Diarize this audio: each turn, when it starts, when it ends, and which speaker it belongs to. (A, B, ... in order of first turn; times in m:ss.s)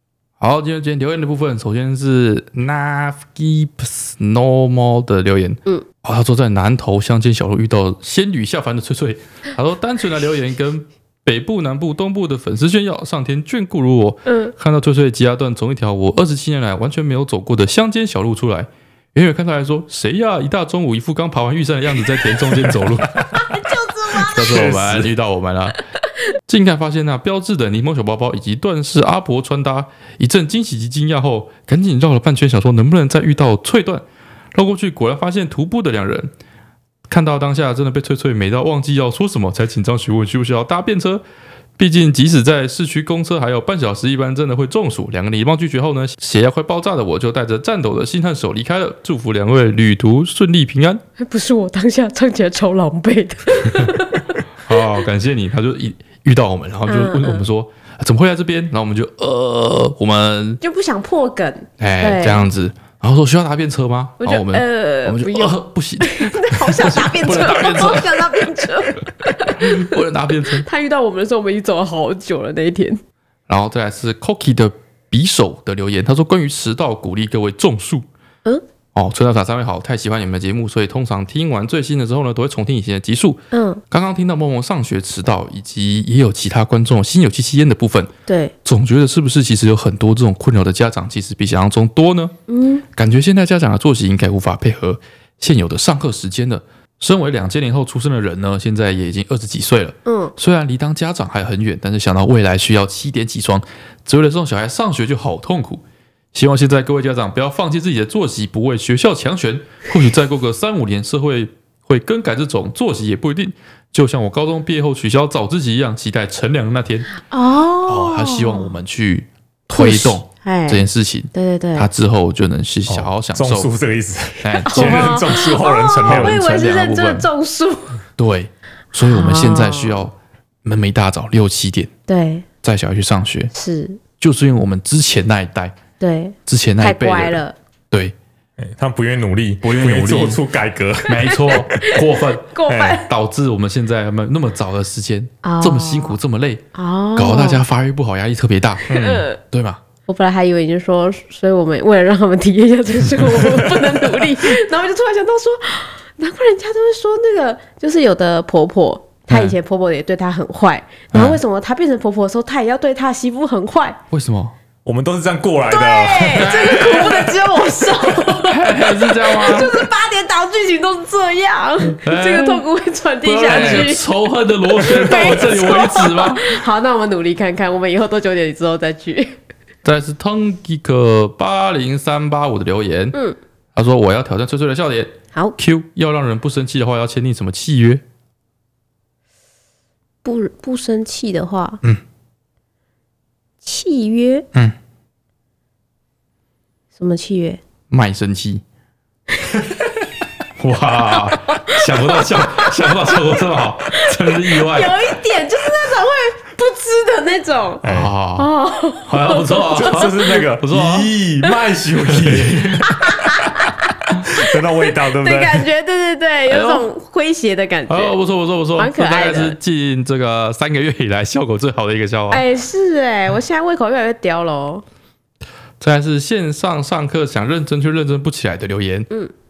0:00.4-0:23.4 A
0:14.2-0:14.5 B
0:23.3-0:24.7 B
0:24.2-0:25.8 A
0:24.3-0:25.1 C
0:26.5-0:36.3 A
0:37.1-0:41.2 A
0:41.8-0:51.0 A
0:51.2-0:54.4 B
0:54.6-1:00.6 A
0:56.9-0:57.4 B
1:00.6-1:02.4 B
1:01.8-1:08.7 A
1:04.2-1:09.9 B
1:09.2-1:10.6 A
1:10.5-1:13.0 B
1:13.5-1:18.0 A
1:18.9-1:28.1 A
1:23.5-1:23.8 B
1:28.3-1:28.5 B
1:28.6-1:32.3 A
1:32.5-1:32.8 B
1:32.9-1:45.8 A
1:40.0-1:40.3 B
1:46.3-1:57.1 A
1:57.2-1:58.7 B
1:57.9-2:03.7 A
1:59.7-2:01.9 B
2:02.9-2:06.4 C
2:04.4-2:05.2 A
2:04.6-2:08.0 B
2:06.0-2:07.3 A
2:08.2-2:10.1 A
2:09.0-2:10.0 B
2:10.6-2:11.9 A
2:12.1-2:12.4 B
2:12.6-2:13.5 A
2:13.5-2:14.0 B
2:14.2-2:15.7 A
2:16.0-2:17.6 B
2:16.4-2:17.4 A
2:18.6-2:21.6 C
2:19.6-2:20.4 A
2:21.1-2:26.6 A
2:21.5-2:23.1 B
2:22.7-2:23.0 C
2:25.4-2:26.2 B
2:26.7-2:27.6 B
2:27.2-2:29.8 A
2:28.9-2:29.4 B
2:28.9-2:29.2 C
2:30.1-2:44.0 B
2:39.3-2:39.5 A
2:41.1-2:41.4 A
2:44.1-2:44.5 A
2:44.8-2:46.5 C
2:45.7-2:54.0 B
2:46.3-2:47.3 A
2:48.4-2:49.7 A
2:52.0-2:52.6 A
2:53.2-2:56.6 A
2:53.5-2:53.8 C
2:54.8-2:59.4 B
2:59.8-3:03.2 A
3:03.7-3:08.0 A
3:10.2-3:11.8 B
3:13.6-3:14.5 B
3:17.0-3:17.6 B
3:17.9-3:18.6 A
3:20.6-3:25.1 A
3:21.5-3:23.2 B
3:23.9-3:27.8 B
3:27.8-3:28.1 C
3:27.8-3:28.5 A
3:28.4-3:30.4 B
3:29.0-3:31.1 A
3:29.7-3:33.1 C
3:32.1-3:32.9 A
3:32.8-3:38.1 B
3:34.2-3:35.6 C
3:36.5-3:36.8 A
3:37.9-3:42.4 A
3:38.8-3:39.6 B
3:42.3-3:44.8 B
3:45.8-3:49.1 A